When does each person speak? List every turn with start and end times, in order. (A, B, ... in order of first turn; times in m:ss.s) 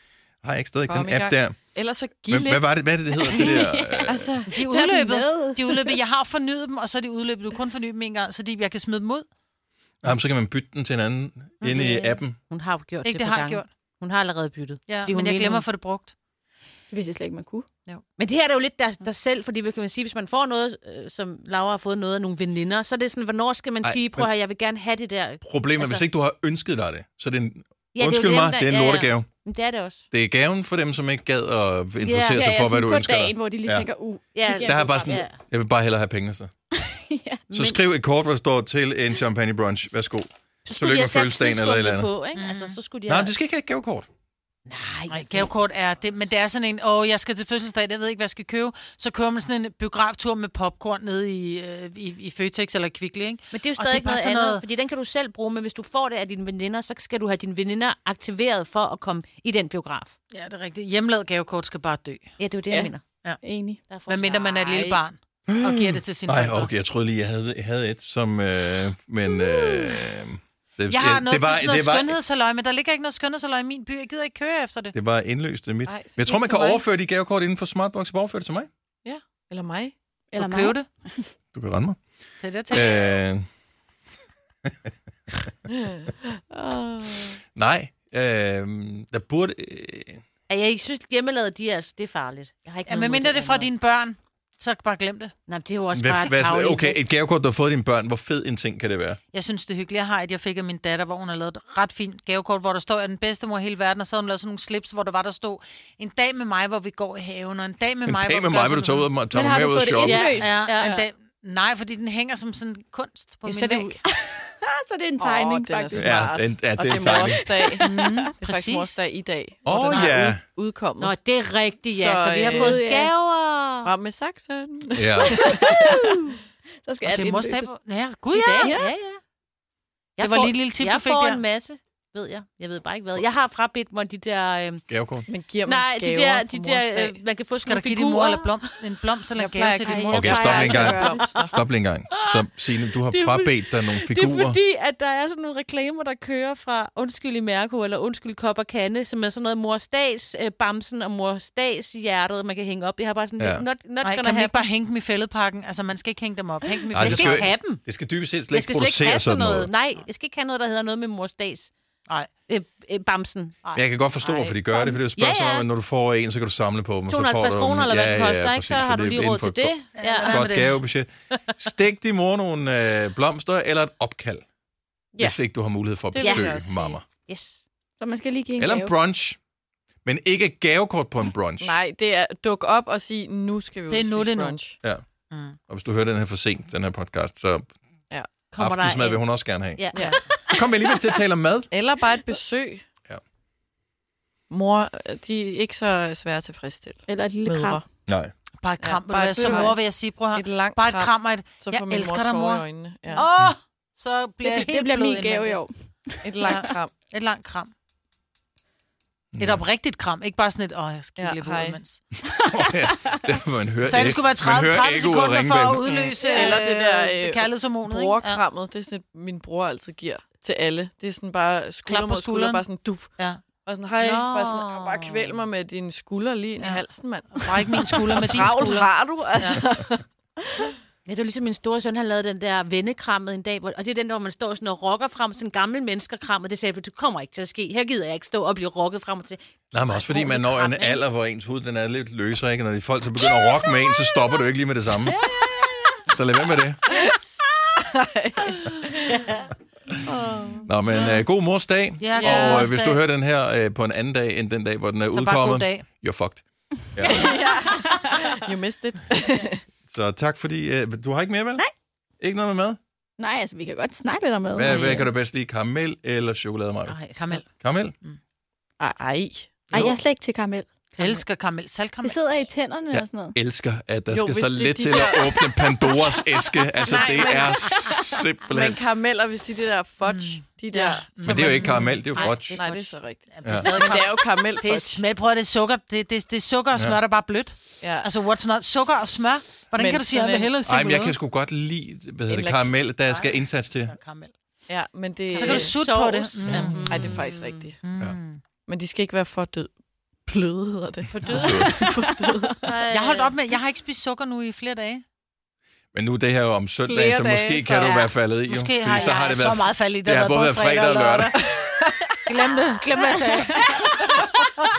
0:00.4-0:01.6 A
0:00.8-0:04.5 B
0:02.3-0:04.3 A
0:03.4-0:05.9 C
0:04.5-0:09.2 D
0:10.0-0:12.4 A
0:11.6-0:11.8 D
0:11.8-0:15.6 E
0:13.0-0:13.7 D
0:14.9-0:16.1 D
0:16.9-0:17.7 C
0:18.2-0:26.0 E
0:23.8-0:24.3 A
0:25.4-0:29.3 A
0:27.9-0:30.0 E
0:30.1-0:33.9 A
0:32.0-0:32.4 E
0:32.3-0:35.2 C
0:34.3-0:35.4 E
0:34.6-0:36.5 A
0:36.8-0:37.4 C
0:37.5-0:37.8 E
0:37.5-0:42.1 A
0:40.6-0:43.3 E
0:42.3-0:42.8 D
0:43.1-0:44.1 A
0:44.7-0:45.5 E
0:45.1-0:54.6 D
0:53.5-1:00.1 E
1:00.3-1:02.3 D
1:02.4-1:03.0 E
1:02.7-1:03.8 C
1:03.9-1:04.8 E
1:04.1-1:06.7 D
1:05.5-1:12.2 A
1:10.9-1:14.9 D
1:14.9-1:18.7 A
1:15.8-1:16.8 B
1:19.0-1:19.9 B
1:20.3-1:21.3 C
1:20.4-1:20.9 D
1:21.5-1:22.0 A
1:22.4-1:22.9 D
1:22.7-1:23.4 A
1:26.5-1:27.3 B
1:27.6-1:30.2 A
1:30.5-1:33.7 E
1:32.9-1:35.3 D
1:35.5-1:37.0 E
1:35.9-1:39.2 A
1:39.3-1:49.1 D
1:48.0-1:50.6 A
1:49.3-1:50.6 C
1:50.0-1:51.0 E
1:50.4-1:54.0 D
1:53.4-1:54.0 E
1:54.0-1:56.1 C
1:55.2-2:01.2 B
1:56.0-1:57.4 A
1:57.1-1:58.3 C
1:57.8-1:59.0 D
1:59.6-2:00.4 A
2:01.0-2:03.9 E
2:01.8-2:02.8 B
2:02.5-2:03.1 C
2:03.8-2:06.3 B
2:05.0-2:05.4 A
2:05.2-2:06.2 C
2:06.8-2:07.7 C
2:07.0-2:08.8 D
2:08.3-2:09.2 E
2:08.6-2:08.9 C
2:10.2-2:14.8 E
2:10.2-2:11.4 D
2:14.9-2:15.3 A
2:15.3-2:17.2 B
2:15.6-2:18.6 E
2:17.6-2:21.2 D
2:19.3-2:21.6 B
2:19.8-2:21.2 C
2:20.0-2:24.6 A
2:20.5-2:22.4 E
2:23.0-2:34.6 E
2:33.4-2:33.6 A
2:34.0-2:37.6 D
2:36.9-2:39.7 A
2:37.0-2:37.8 E
2:38.5-2:41.7 E
2:42.1-2:42.3 D
2:42.5-2:43.8 E
2:43.7-2:44.6 D
2:43.8-2:54.4 A
2:44.8-2:45.7 E
2:47.1-2:50.5 E
2:49.9-2:50.8 D
2:55.1-2:55.4 B
2:55.2-2:57.0 A
2:56.1-2:56.8 B
2:56.2-2:57.6 E
2:58.0-2:58.9 C
2:58.6-2:59.4 A
3:00.0-3:01.8 A
3:01.6-3:04.8 B
3:03.9-3:04.6 D
3:05.3-3:05.6 D
3:05.7-3:07.7 A
3:08.5-3:10.4 E
3:08.6-3:11.7 A
3:11.7-3:12.8 B
3:14.5-3:17.8 B
3:17.1-3:17.8 C
3:18.1-3:18.3 A
3:18.6-3:25.6 D
3:18.8-3:23.3 B
3:19.4-3:19.7 C
3:24.4-3:26.4 C
3:26.2-3:26.9 B
3:26.4-3:27.7 D
3:29.4-3:29.6 A
3:29.4-3:32.0 D
3:31.2-3:31.8 B
3:32.5-3:36.3 A
3:32.6-3:33.1 C
3:33.8-3:38.4 D
3:36.3-3:36.6 C
3:36.3-3:50.0 B
3:41.8-3:42.6 D
3:43.2-3:43.4 D
3:44.0-3:45.4 E
3:46.6-3:49.6 D
3:51.0-4:01.0 E
3:59.7-4:05.2 A
4:05.4-4:05.9 B
4:06.1-4:06.8 A
4:06.9-4:09.3 B
4:10.1-4:11.2 B
4:10.6-4:17.3 A
4:12.0-4:13.0 D
4:12.2-4:12.6 B
4:15.1-4:15.8 D
4:17.0-4:18.3 C
4:17.3-4:19.6 B
4:19.9-4:21.6 A
4:22.2-4:22.8 A
4:23.2-4:25.0 C
4:24.5-4:27.0 A
4:24.6-4:25.1 E
4:26.8-4:27.4 E
4:27.2-4:27.5 D
4:27.6-4:27.9 A
4:28.8-4:30.0 B
4:29.7-4:30.7 C
4:30.9-4:31.2 E
4:31.0-4:32.4 D
4:32.0-4:33.3 C
4:32.9-4:38.8 A
4:34.1-4:36.0 B
4:36.8-4:41.9 B
4:36.9-4:37.3 C
4:40.0-4:42.5 D
4:41.2-4:42.6 A
4:42.3-4:43.0 E
4:42.5-4:45.0 B
4:43.3-4:51.2 D
4:43.4-4:43.8 A
4:46.7-4:47.0 A
4:47.8-4:48.1 B
4:49.7-4:50.5 B
4:50.6-4:53.9 A
4:52.3-4:52.8 B
4:53.0-4:54.3 D
4:54.7-4:55.9 B
4:55.3-4:57.2 D
4:55.3-4:57.7 E
4:56.4-4:57.2 A
4:56.8-4:57.8 B
4:57.8-4:58.4 D
4:58.7-4:59.7 B
5:00.2-5:02.8 B
5:01.1-5:01.5 E
5:01.2-5:01.7 D
5:01.2-5:01.8 A
5:02.6-5:03.4 E
5:02.9-5:05.0 D
5:05.9-5:11.4 A
5:06.8-5:07.8 E
5:07.3-5:11.5 D
5:08.9-5:09.2 E
5:12.3-5:14.0 D
5:13.0-5:13.3 B